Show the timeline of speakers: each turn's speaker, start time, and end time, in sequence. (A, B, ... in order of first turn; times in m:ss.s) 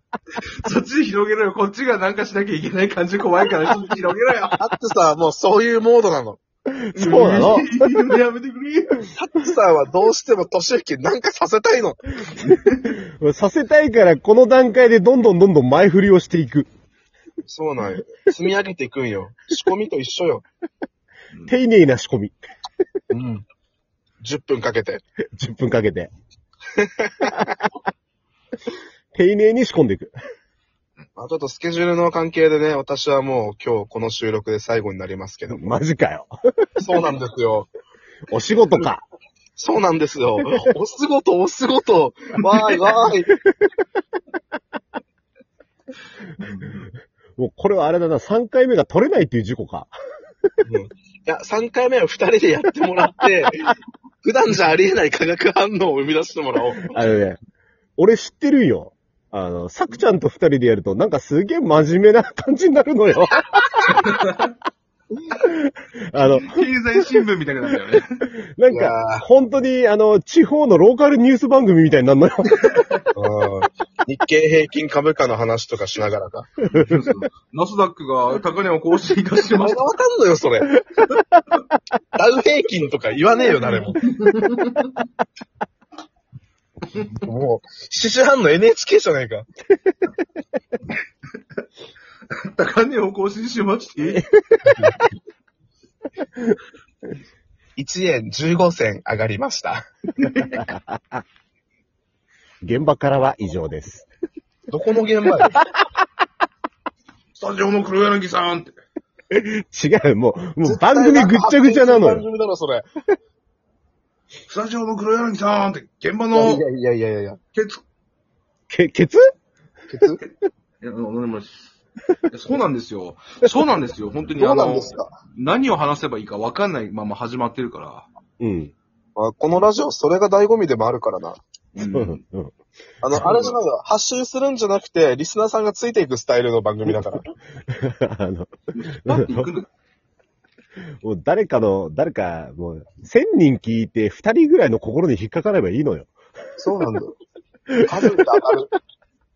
0:00.6-0:04.6 A
0:04.6-0:06.4 B
0:06.7-0:07.7 C
0:07.0-0:09.1 A
0:09.2-0:12.0 B
0:12.3-0:13.0 A
0:13.0-0:16.7 C
0:17.5-0:20.4 B
0:21.5-0:22.4 C
0:23.1-0:23.4 B
0:24.2-0:25.0 B
0:25.4-0:26.1 C
0:26.8-0:27.4 B
0:29.2-0:30.1 C
0:31.2-0:35.6 B
0:35.5-0:36.3 C
0:36.8-0:37.7 B
0:38.3-0:39.0 C
0:39.6-0:43.3 B
0:46.4-0:46.8 A
0:47.4-0:49.9 C
0:50.6-0:57.0 B
0:56.9-0:57.4 C
0:58.0-1:03.7 C
1:03.9-1:04.5 A
1:05.4-1:06.6 C
1:06.3-1:08.2 A
1:08.4-1:12.8 C
1:08.7-1:09.2 B
1:13.2-1:16.5 B
1:16.7-1:19.9 A
1:19.6-1:20.7 B
1:22.2-1:24.0 B
1:24.0-1:25.0 A
1:27.2-1:29.5 B
1:32.3-1:34.3 A
1:34.2-1:34.8 C
1:34.7-1:35.0 B
1:37.8-1:39.9 B
1:40.2-1:40.7 A
1:40.6-1:41.2 C
1:42.6-1:44.1 C
1:44.7-1:45.6 B
1:47.3-1:48.8 A
1:49.3-1:52.2 C
1:50.6-1:52.9 B
1:54.5-1:56.6 A
1:56.3-1:57.4 B
1:57.5-1:57.8 A
1:58.7-1:59.3 C
1:59.9-2:00.2 B
2:00.8-2:01.8 A
2:02.3-2:08.1 A
2:04.4-2:05.1 B
2:08.4-2:08.7 C
2:09.2-2:11.4 B
2:11.8-2:12.2 A
2:11.9-2:12.5 C
2:13.0-2:17.2 B
2:13.2-2:13.6 A
2:17.7-2:18.5 C
2:18.8-2:19.7 A
2:19.1-2:19.5 C
2:21.0-2:26.1 C
2:26.6-2:27.1 B
2:27.8-2:28.7 B